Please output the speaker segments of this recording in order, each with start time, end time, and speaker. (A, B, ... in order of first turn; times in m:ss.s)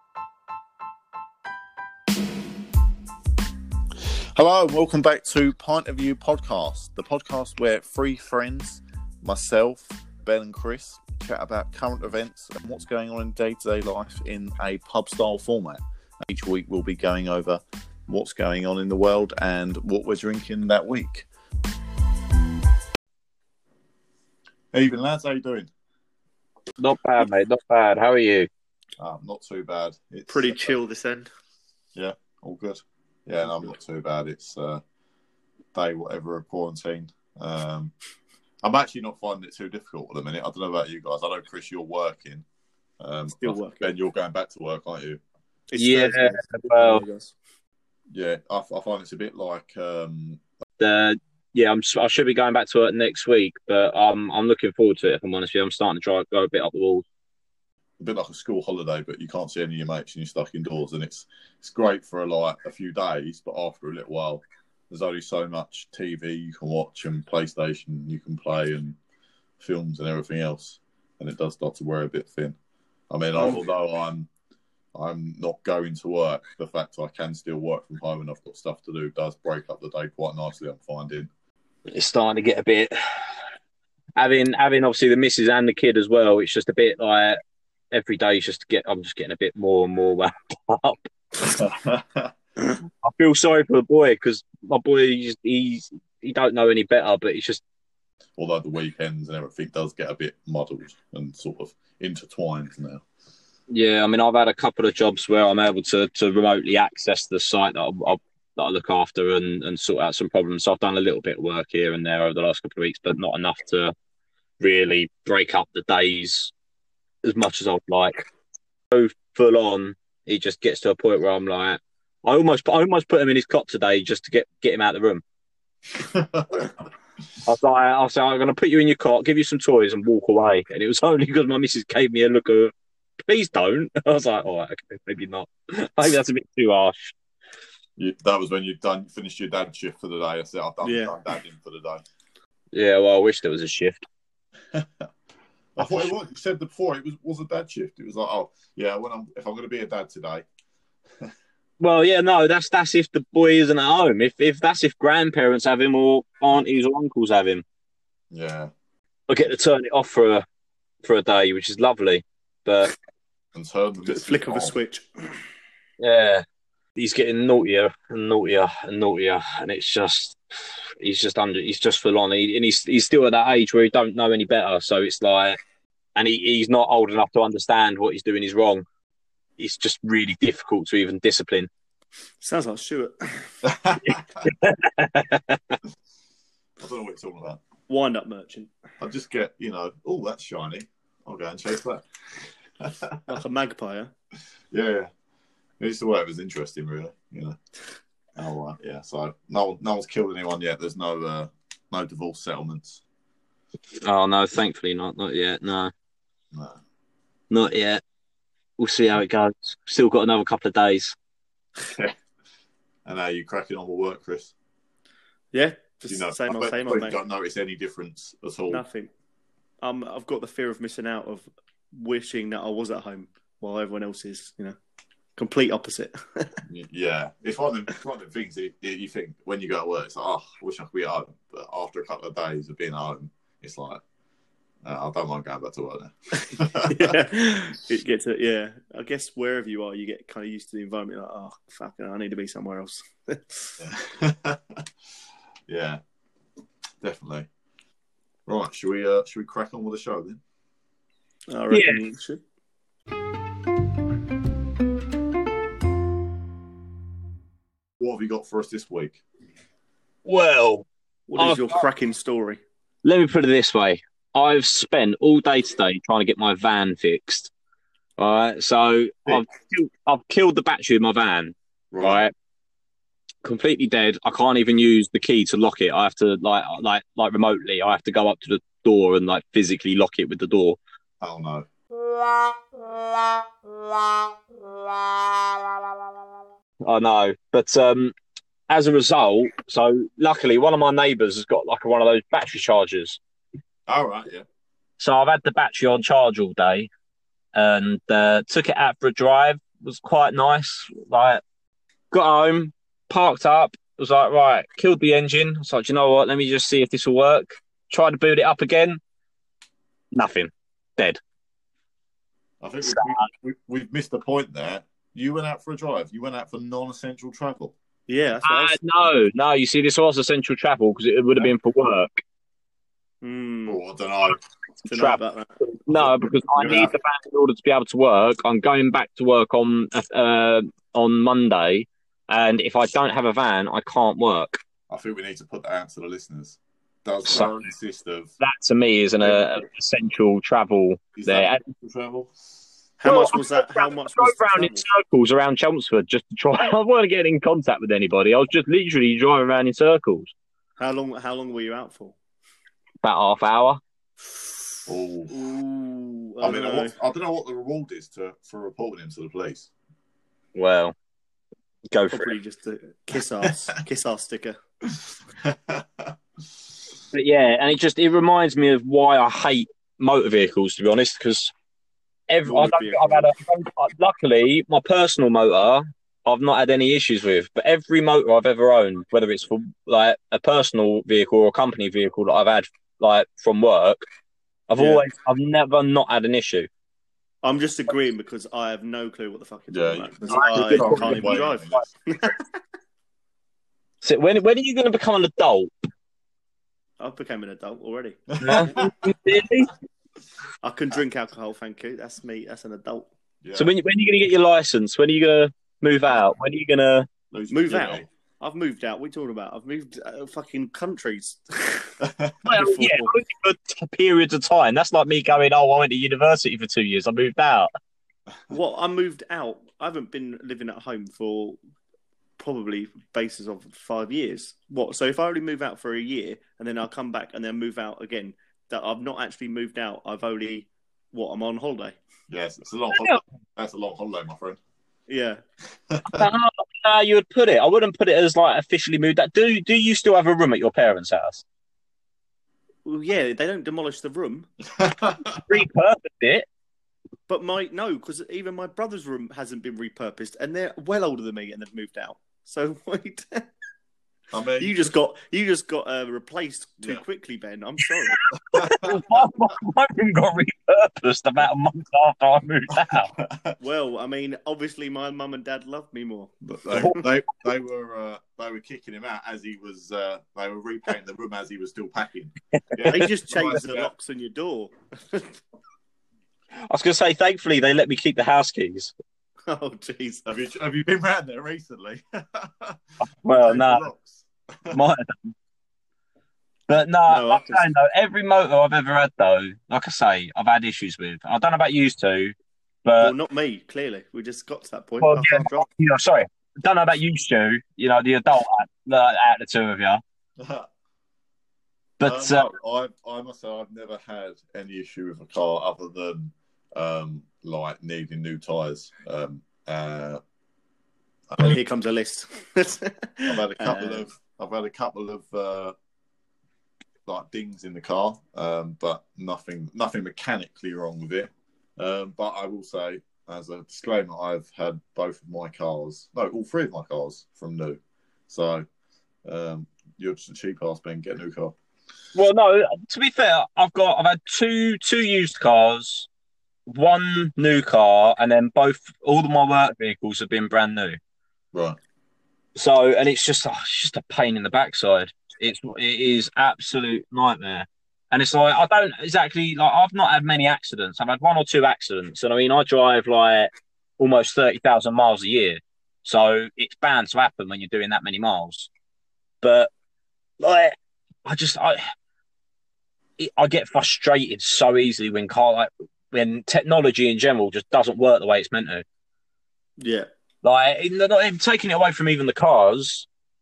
0:04.1-0:21.3 A
0:24.7-0:25.7 A
0:26.8-0:28.5 B
0:29.0-0:30.7 A
0:30.3-0:31.3 C
0:31.9-0:34.8 A
0:35.7-0:37.9 A
0:38.6-0:42.4 A
0:43.0-0:45.2 A
0:43.3-0:43.9 C
0:45.7-0:47.3 C
0:45.8-0:47.0 B
0:48.1-0:50.4 A
0:50.8-0:57.0 B
0:58.0-1:09.0 A
1:09.6-1:12.6 A
1:13.1-1:14.3 A
1:14.9-1:21.3 A
1:21.9-1:22.9 B
1:24.2-1:27.4 B
1:27.9-1:31.6 B
1:31.5-1:32.3 A
1:33.0-1:37.6 B
1:38.4-1:43.0 A
1:43.7-1:53.9 B
1:54.6-1:56.5 B
1:57.2-1:58.2 B
1:58.9-2:05.2 B
2:06.0-2:06.7 A
2:07.4-2:17.1 B
2:18.0-2:22.0 A
2:20.8-2:21.2 C
2:22.7-2:24.0 B
2:24.7-2:25.0 A
2:25.8-2:30.4 A
2:31.8-2:37.6 B
2:38.3-2:38.7 A
2:39.3-2:40.4 B
2:41.0-2:42.9 B
2:43.5-2:44.7 A
2:44.1-2:45.1 C
2:46.0-2:46.4 B
2:47.0-2:50.4 B
2:51.0-2:55.6 B
2:56.1-2:58.8 B
2:59.6-3:01.7 B
3:02.4-3:03.6 C
3:03.6-3:04.5 A
3:04.0-3:05.8 B
3:06.8-3:07.6 A
3:07.9-3:08.7 C
3:09.0-3:12.0 A
3:12.8-3:13.2 A
3:13.3-3:14.1 C
3:14.7-3:15.1 A
3:15.8-3:17.6 A
3:18.4-3:23.0 A
3:24.0-3:25.9 B
3:26.5-3:26.8 A
3:27.5-3:28.0 B
3:28.8-3:31.1 B
3:31.8-3:32.1 A
3:33.0-3:34.5 A
3:35.5-3:37.2 C
3:36.1-3:38.8 A
3:38.7-3:39.1 C
3:39.8-3:44.8 C
3:45.4-3:46.6 C
3:46.7-3:54.0 A
3:54.8-3:57.1 A
3:56.5-4:03.8 C
4:03.8-4:04.8 A
4:05.7-4:06.0 A
4:07.0-4:07.5 A
4:08.5-4:10.4 A
4:11.5-4:12.4 C
4:11.7-4:12.0 B
4:18.0-4:19.2 A
4:20.2-4:20.8 B
4:21.3-4:22.6 C
4:21.4-4:21.8 B
4:23.0-4:27.5 B
4:28.2-4:32.3 B
4:31.9-4:32.2 A
4:33.4-4:40.8 B
4:41.2-4:41.7 A
4:46.8-4:48.1 B
4:48.7-4:53.2 B
4:53.9-4:54.4 A
4:55.0-4:56.9 B
4:57.5-5:01.4 B
5:02.1-5:09.0 B
5:10.1-5:11.2 B
5:12.6-5:17.7 A
5:12.8-5:13.2 B
5:18.1-5:18.8 C
5:18.4-5:22.2 B
5:23.2-5:23.8 C
5:23.7-5:24.4 A
5:24.8-5:34.6 B
5:24.8-5:25.6 C
5:25.9-5:26.9 A
5:34.9-5:38.3 A
5:37.3-5:37.7 B
5:38.4-5:41.7 B
5:39.2-5:39.5 A
5:41.2-5:42.3 A
5:43.0-5:44.8 C
5:43.0-5:50.3 B
5:50.8-5:52.2 C
5:53.0-5:53.8 B
5:54.9-5:55.3 A
5:55.3-5:56.9 C
5:56.4-5:59.7 A
6:00.5-6:00.9 B
6:01.9-6:02.3 B
6:02.1-6:04.6 C
6:05.4-6:06.1 A
6:07.1-6:11.5 B
6:12.3-6:24.0 B
6:12.4-6:13.3 C
6:24.7-6:26.7 B
6:24.8-6:25.0 C
6:27.4-6:32.4 C
6:29.7-6:31.9 A
6:30.3-6:31.4 B
6:34.0-6:35.7 B
6:37.0-6:38.7 C
6:38.3-6:39.1 A
6:38.4-6:39.7 B
6:40.6-6:43.1 C
6:43.4-6:43.7 A
6:43.5-6:47.1 B
6:47.3-6:48.1 A
6:47.5-6:53.1 C
6:52.0-6:52.4 A
6:52.4-6:57.7 B
6:58.5-7:01.6 C
7:02.4-7:12.0 C
7:12.3-7:14.6 A
7:12.9-7:13.2 B
7:15.1-7:15.4 C
7:15.9-7:16.3 A
7:16.1-7:21.4 B
7:22.8-7:24.5 C
7:24.7-7:25.4 A
7:25.4-7:26.5 B
7:27.3-7:33.5 C
7:34.3-7:34.9 A
7:34.6-7:38.2 C
7:38.2-7:43.1 B
7:38.3-7:39.3 A
7:42.7-7:43.6 A
7:43.6-7:47.0 C
7:46.4-7:53.9 A
7:52.8-7:55.4 C
7:56.7-7:58.9 B
7:59.5-8:00.2 C
8:00.2-8:04.8 A
8:03.2-8:03.8 B
8:04.7-8:05.3 B
8:06.7-8:13.1 B
8:07.1-8:07.7 C
8:13.0-8:15.7 C
8:15.0-8:20.0 B
8:20.4-8:20.7 A
8:22.0-8:22.4 B
8:22.0-8:30.2 A
8:31.3-8:31.6 A
8:31.4-8:34.1 C
8:33.3-8:35.7 A
8:37.0-8:48.6 A
8:49.2-8:51.5 A
8:52.1-8:56.1 B
8:56.7-9:01.0 B
9:01.5-9:01.8 A
9:02.6-9:18.7 B
9:19.4-9:19.7 B
9:20.4-9:21.8 B
9:23.2-9:28.8 B
9:29.8-9:30.1 C
9:30.4-9:33.1 B